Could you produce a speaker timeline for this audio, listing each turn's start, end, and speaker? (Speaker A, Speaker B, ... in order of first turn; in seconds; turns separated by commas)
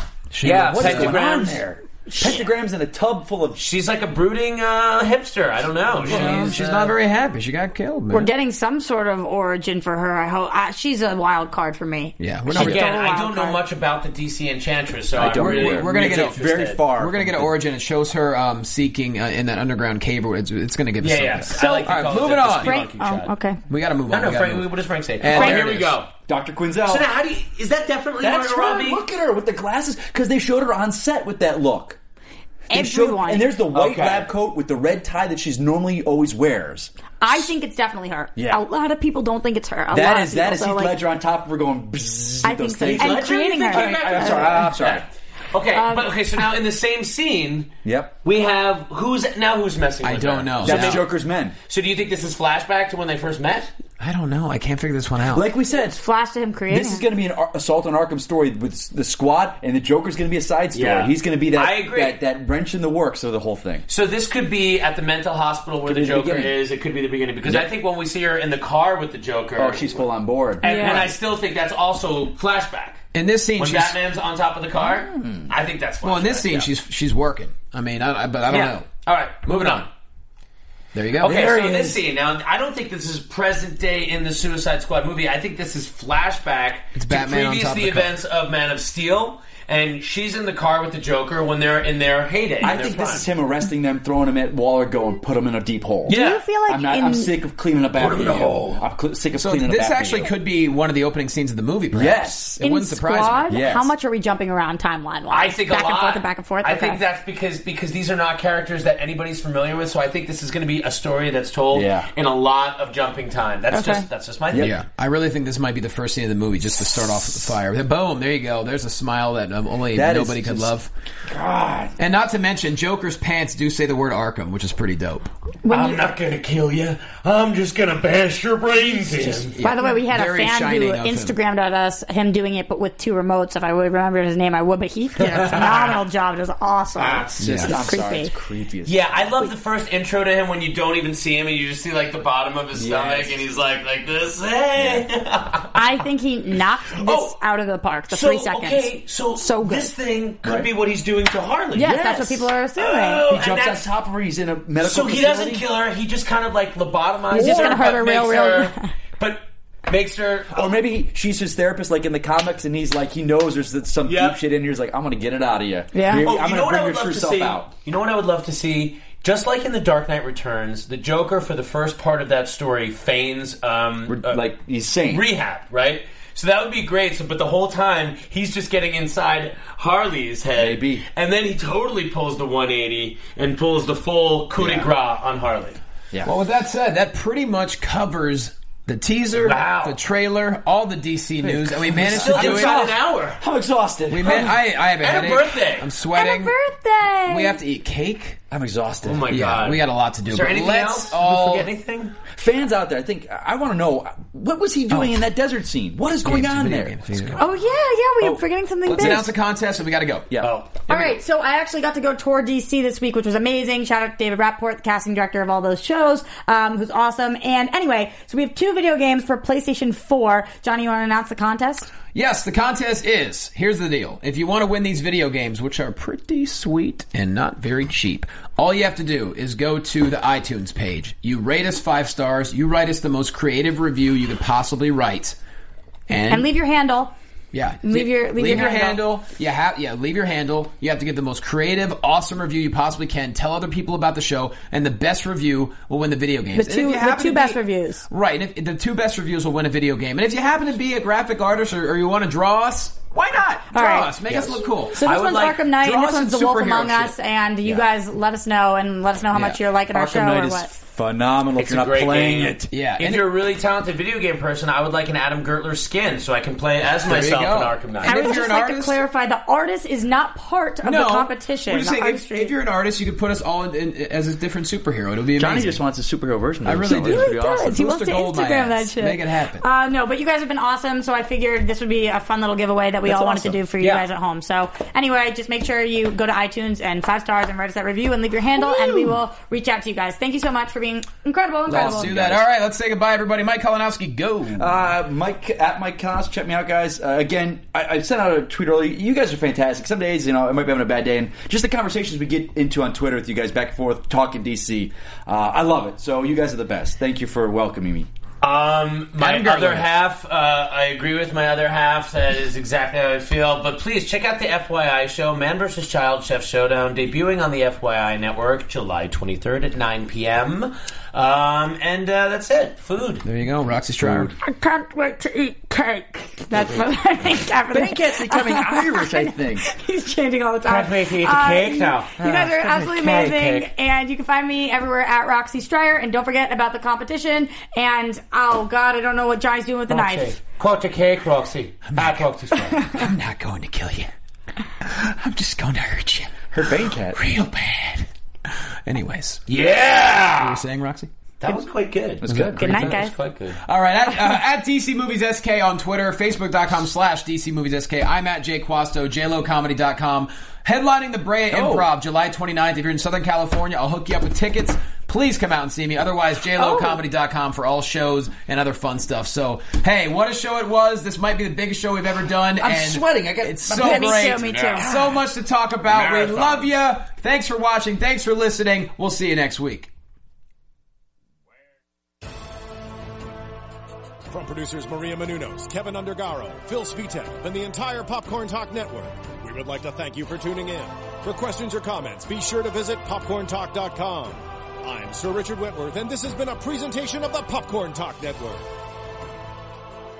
Speaker A: 0.3-1.1, Speaker B: 0.4-3.6, Speaker C: 0.4-1.7, Speaker D: 2.1-2.4, Speaker C: 3.5-7.0, Speaker B: 6.1-6.5, Speaker A: 6.1-8.3, Speaker D: 6.1-6.5, Speaker D: 8.1-13.6, Speaker A: 12.2-12.9, Speaker C: 12.5-16.8, Speaker B: 15.1-17.6, Speaker A: 15.2-22.8, Speaker C: 21.0-23.3, Speaker D: 21.5-23.6, Speaker A: 23.7-25.9, Speaker C: 24.1-26.1, Speaker B: 25.3-25.7, Speaker B: 26.3-27.1, Speaker C: 26.8-29.0, Speaker B: 28.2-32.0, Speaker B: 32.7-36.9, Speaker D: 32.7-33.5, Speaker C: 33.7-34.3, Speaker D: 37.2-41.0, Speaker B: 38.4-38.6, Speaker B: 39.9-45.0, Speaker D: 42.4-44.7, Speaker C: 42.8-47.7, Speaker D: 45.7-46.1, Speaker B: 47.8-48.2, Speaker C: 48.2-51.1, Speaker A: 50.0-51.0, Speaker B: 50.6-51.5, Speaker C: 51.7-53.7, Speaker A: 54.0-55.5, Speaker B: 55.2-56.0, Speaker D: 55.9-57.0, Speaker B: 56.7-63.8, Speaker C: 60.7-62.2, Speaker C: 63.9-70.0, Speaker B: 65.8-66.6, Speaker B: 67.4-67.7, Speaker B: 69.5-71.1, Speaker C: 70.6-73.0, Speaker D: 70.6-71.1, Speaker A: 73.1-74.0, Speaker C: 73.6-76.7, Speaker B: 75.1-75.5, Speaker A: 76.0-78.9, Speaker C: 78.5-79.9, Speaker A: 79.5-79.8, Speaker A: 80.9-81.4, Speaker C: 81.2-93.3, Speaker B: 81.2-82.0, Speaker A: 86.9-88.1, Speaker B: 92.6-100.3, Speaker D: 96.1-97.3, Speaker C: 96.1-96.4, Speaker C: 98.0-98.8, Speaker A: 99.3-103.5, Speaker B: 101.9-102.6, Speaker D: 102.6-107.0, Speaker B: 103.5-103.9, Speaker C: 105.3-114.7, Speaker B: 111.7-112.1, Speaker D: 113.7-114.1, Speaker B: 114.5-114.8, Speaker A: 114.5-120.9, Speaker B: 119.9-120.7, Speaker B: 121.3-122.0, Speaker A: 122.0-125.3, Speaker D: 125.6-126.1, Speaker C: 125.7-129.5, Speaker A: 129.5-131.3, Speaker D: 129.6-138.3, Speaker C: 135.2-136.0, Speaker C: 137.0-137.4, Speaker B: 137.4-139.5, Speaker A: 137.4-137.7, Speaker C: 138.8-145.8, Speaker B: 142.7-143.4, Speaker B: 144.8-145.1, Speaker D: 145.7-149.9, Speaker C: 146.9-147.3, Speaker C: 148.1-152.1, Speaker B: 150.4-150.7, Speaker D: 151.8-153.2, Speaker B: 151.8-152.5, Speaker C: 152.8-153.9, Speaker B: 153.3-155.7, Speaker C: 154.8-160.7, Speaker D: 157.3-158.9, Speaker B: 157.3-157.8, Speaker B: 160.5-167.7, Speaker C: 164.1-164.4, Speaker D: 165.9-166.3, Speaker C: 166.2-174.5, Speaker B: 174.1-175.2, Speaker C: 175.0-185.8, Speaker B: 180.6-181.0, Speaker B: 184.6-184.9, Speaker A: 186.2-192.8, Speaker C: 189.4-190.0, Speaker B: 191.4-194.6, Speaker C: 192.0-193.4, Speaker A: 194.1-196.5, Speaker C: 194.2-195.9, Speaker D: 196.1-197.6, Speaker A: 197.3-198.4, Speaker B: 198.5-199.3, Speaker C: 199.0-202.1, Speaker A: 199.3-201.7, Speaker B: 202.3-207.6, Speaker A: 204.9-205.2, Speaker A: 206.2-207.4, Speaker D: 207.4-209.2, Speaker B: 208.2-209.3, Speaker A: 208.9-210.3, Speaker B: 210.3-210.6, Speaker C: 210.4-210.8, Speaker A: 210.9-211.2, Speaker D: 210.9-221.9, Speaker A: 222.1-235.4, Speaker A: 236.1-236.5, Speaker D: 236.3-237.1, Speaker A: 237.5-257.1, Speaker D: 237.8-239.0, Speaker D: 246.5-248.1, Speaker D: 253.7-254.1, Speaker B: 254.3-254.6, Speaker D: 254.9-260.7, Speaker B: 259.9-262.6, Speaker C: 261.5-268.3, Speaker A: 262.7-263.3, Speaker A: 267.0-269.0, Speaker D: 268.0-272.5, Speaker A: 270.8-275.8, Speaker B: 275.3-277.8, Speaker A: 276.6-279.6, Speaker D: 276.9-292.1, Speaker B: 283.0-283.6, Speaker A: 283.8-284.1, Speaker A: 291.7-294.8, Speaker B: 291.7-292.4, Speaker B: 294.5-308.1, Speaker C: 308.4-323.2, Speaker A: 309.2-309.9, Speaker A: 323.2-324.3, Speaker B: 324.0-324.3, Speaker D: 324.4-340.4, Speaker B: 327.7-329.6, Speaker C: 330.6-333.7, Speaker B: 332.2-332.7, Speaker C: 339.9-342.8, Speaker A: 341.9-342.3, Speaker A: 342.8-344.1, Speaker A: 344.8-348.1, Speaker B: 346.5-347.2, Speaker A: 348.9-349.4, Speaker C: 349.5-350.6, Speaker A: 350.4-351.1, Speaker C: 351.4-353.6, Speaker B: 352.2-353.0, Speaker A: 352.2-353.0, Speaker D: 352.6-353.1, Speaker A: 353.6-379.9, Speaker B: 361.5-361.9, Speaker D: 366.6-367.0, Speaker B: 372.6-374.4, Speaker D: 373.8-374.9, Speaker C: 374.4-375.2, Speaker C: 375.9-376.7, Speaker E: 384.3-398.6